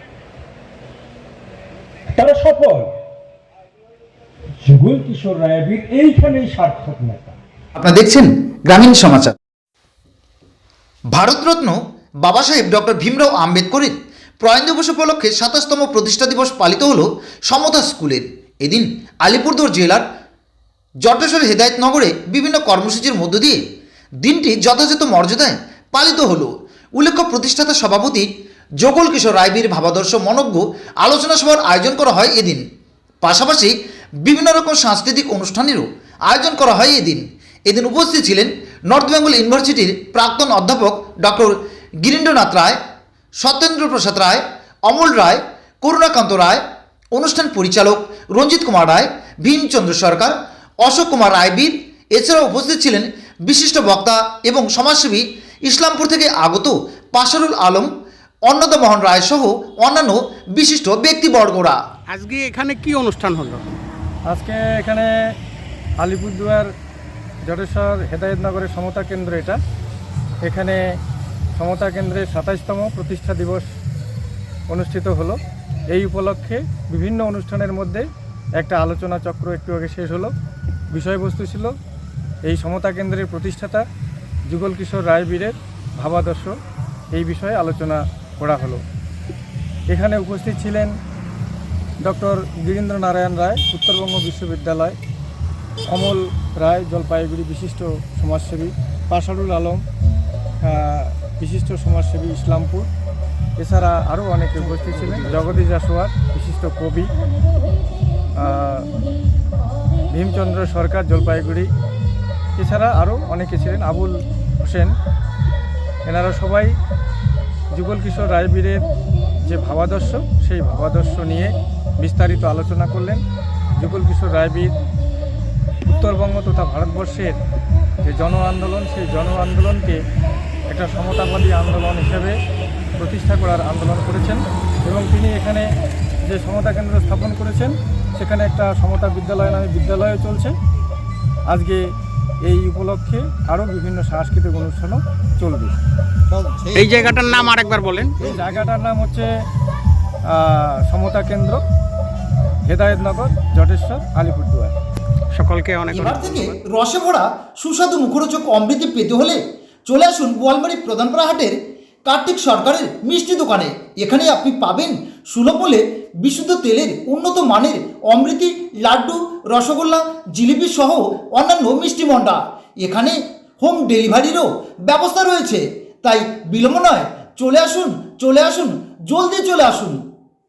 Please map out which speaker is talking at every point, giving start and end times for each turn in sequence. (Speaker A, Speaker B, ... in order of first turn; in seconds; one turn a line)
Speaker A: 2.1-2.9
Speaker A: 4.6-7.3
Speaker B: 7.8-9.3
Speaker B: 11.1-20.0
Speaker B: 21.0-23.6
Speaker B: 24.2-28.3
Speaker B: 28.8-32.6
Speaker B: 33.2-42.8
Speaker B: 43.4-46.6
Speaker B: 47.1-57.9
Speaker B: 58.5-61.8
Speaker C: 62.1-63.8
Speaker D: 64.3-65.1
Speaker D: 66.0-66.7
Speaker D: 67.5-69.6
Speaker D: 70.4-70.8
Speaker D: 71.6-73.7
Speaker D: 74.7-75.4
Speaker D: 75.9-78.0
Speaker D: 78.6-80.3
Speaker D: 80.9-81.7
Speaker D: 82.5-83.8
Speaker D: 84.5-86.5
Speaker D: 87.1-88.8
Speaker D: 89.9-90.9
Speaker D: 92.0-95.0
Speaker D: 95.9-99.8
Speaker D: 100.6-102.9
Speaker D: 103.6-107.1
Speaker D: 108.4-108.9
Speaker D: 110.1-111.7
Speaker D: 112.6-114.9
Speaker D: 116.1-116.7
Speaker D: 117.7-118.8
Speaker D: 119.5-123.2
Speaker D: 123.8-124.7
Speaker D: 125.8-127.3
Speaker D: 128.0-130.0
Speaker D: 130.7-132.3
Speaker D: 133.0-135.7
Speaker D: 136.3-140.5
Speaker D: 141.5-141.8
Speaker D: 142.4-145.7
Speaker A: 146.4-146.8
Speaker C: 146.7-148.2
Speaker D: 148.2-149.3
Speaker D: 150.3-151.6
Speaker D: 152.7-154.7
Speaker C: 155.3-156.6
Speaker B: 155.9-180.0